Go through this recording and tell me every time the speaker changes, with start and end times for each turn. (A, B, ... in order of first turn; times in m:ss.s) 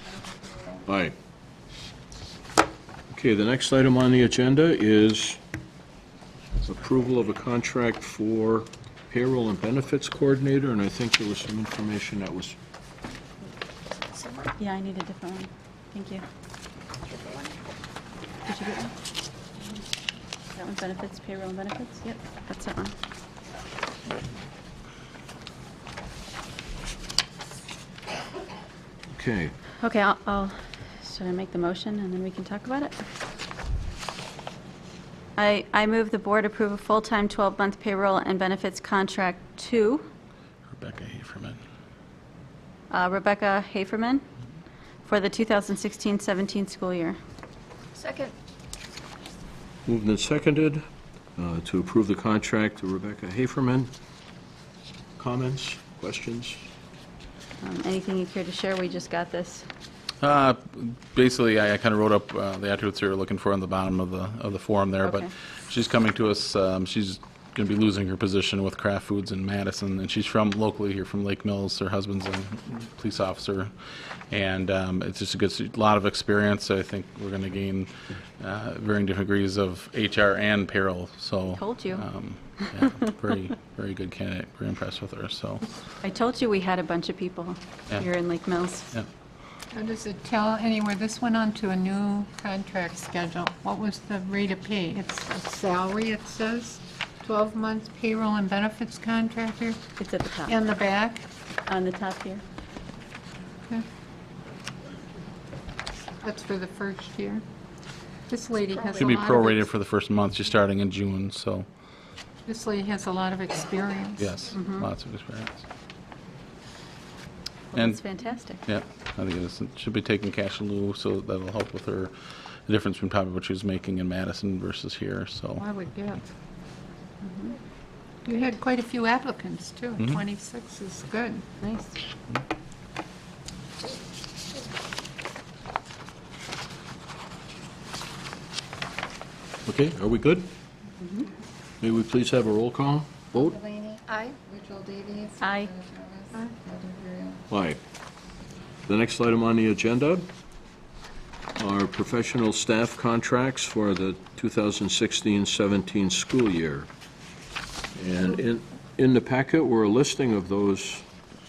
0:00.2-0:00.8 A
0:00.9-0:01.1 B
0:03.1-0:05.4 B
0:06.6-0:12.6 B
0:14.1-0:14.5 C
0:14.6-0:16.2 D
0:17.1-0:17.5 C
0:18.4-0:18.9 D
0:20.5-0:22.9 D
0:29.1-0:29.5 B
0:29.8-0:33.0 D
0:35.4-0:40.0 D
0:40.7-0:41.6 E
0:42.9-0:44.2 D
0:45.0-0:47.2 D
0:48.0-0:48.3 C
0:49.9-0:50.8 B
0:51.4-0:53.9 B
0:55.2-0:56.6 B
0:57.6-0:59.6 D
1:00.2-1:13.7 E
1:05.0-1:05.3 D
1:14.3-1:25.7 E
1:21.5-1:22.0 D
1:26.0-1:28.9 D
1:29.7-1:39.6 F
1:31.7-1:32.5 C
1:33.8-1:34.0 C
1:35.9-1:36.3 C
1:37.3-1:37.6 C
1:40.0-1:40.6 D
1:40.7-1:41.2 F
1:41.7-1:42.4 D
1:46.2-1:47.4 F
1:48.3-1:49.4 F
1:48.3-1:49.2 C
1:48.9-1:51.7 E
1:52.5-1:54.0 F
1:53.3-1:54.2 C
1:54.2-1:55.6 E
1:54.5-1:54.9 D
1:57.7-1:58.6 D
1:57.7-1:58.0 E
1:58.6-2:02.1 E
2:02.7-2:05.7 E
2:05.6-2:06.2 F
2:07.2-2:07.5 D
2:08.2-2:11.2 F
2:08.3-2:09.0 C
2:09.8-2:10.4 C
2:11.6-2:12.0 D
2:19.6-2:20.5 B
2:21.0-2:21.3 D
2:21.8-2:23.6 B
2:23.4-2:27.4 A
2:25.4-2:25.7 D
2:27.5-2:27.8 B
2:28.9-2:30.3 B
2:31.6-2:36.9 B
2:38.0-2:41.0 B